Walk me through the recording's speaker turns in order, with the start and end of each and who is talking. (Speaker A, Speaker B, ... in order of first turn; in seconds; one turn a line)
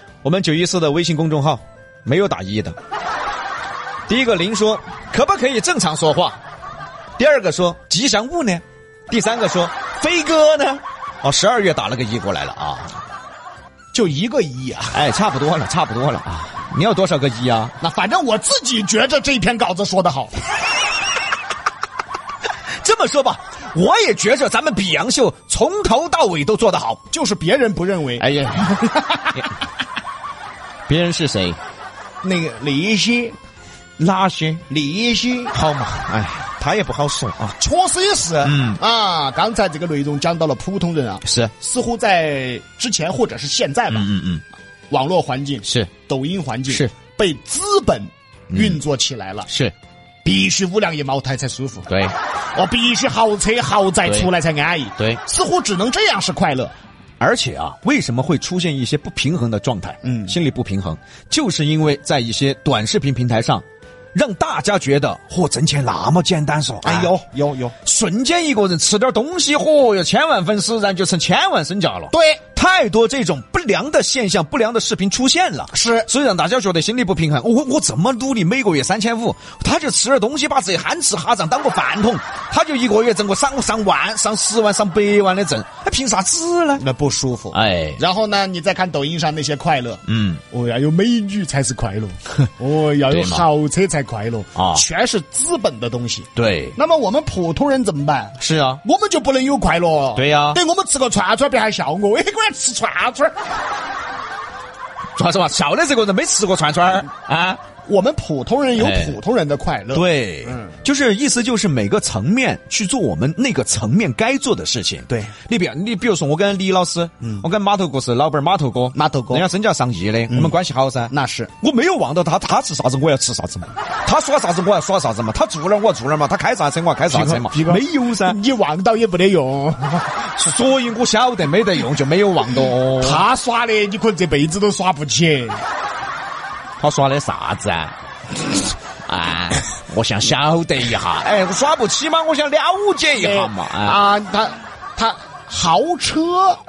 Speaker A: 0.2-2.8
Speaker A: 4.1-6.4
Speaker A: 7.2-13.0
Speaker B: 13.9-15.0
Speaker A: 14.9-17.8
Speaker B: 17.8-20.3
Speaker A: 22.8-27.0
Speaker B: 27.1-29.5
Speaker A: 28.2-28.8
Speaker A: 30.9-31.6
Speaker B: 32.2-33.4
Speaker A: 34.0-34.6
Speaker B: 34.7-35.5
Speaker A: 35.5-37.6
Speaker B: 37.6-44.1
Speaker A: 38.4-38.8
Speaker A: 41.2-41.5
Speaker A: 43.9-44.4
Speaker B: 44.9-49.5
Speaker A: 45.6-45.9
Speaker A: 48.5-48.8
Speaker A: 49.5-49.7
Speaker B: 50.2-51.9
Speaker A: 51.9-52.1
Speaker B: 52.5-56.7
Speaker A: 57.2-67.1
Speaker B: 60.0-60.4
Speaker B: 66.8-67.8
Speaker A: 67.8-86.8
Speaker B: 72.1-72.4
Speaker B: 75.7-76.1
Speaker B: 86.8-103.3
Speaker A: 87.5-88.0
Speaker A: 90.1-90.4
Speaker A: 93.1-93.5
Speaker A: 94.6-94.8
Speaker A: 96.3-96.8
Speaker A: 98.4-98.8
Speaker A: 100.2-100.6
Speaker A: 105.2-107.6
Speaker B: 107.9-110.5
Speaker A: 108.8-109.2
Speaker A: 109.9-128.4
Speaker B: 119.0-119.5
Speaker B: 120.3-120.6
Speaker B: 121.1-121.5
Speaker B: 127.1-130.1
Speaker A: 130.2-133.2
Speaker B: 133.0-135.6
Speaker A: 136.8-137.9
Speaker A: 139.1-144.0
Speaker B: 143.2-146.6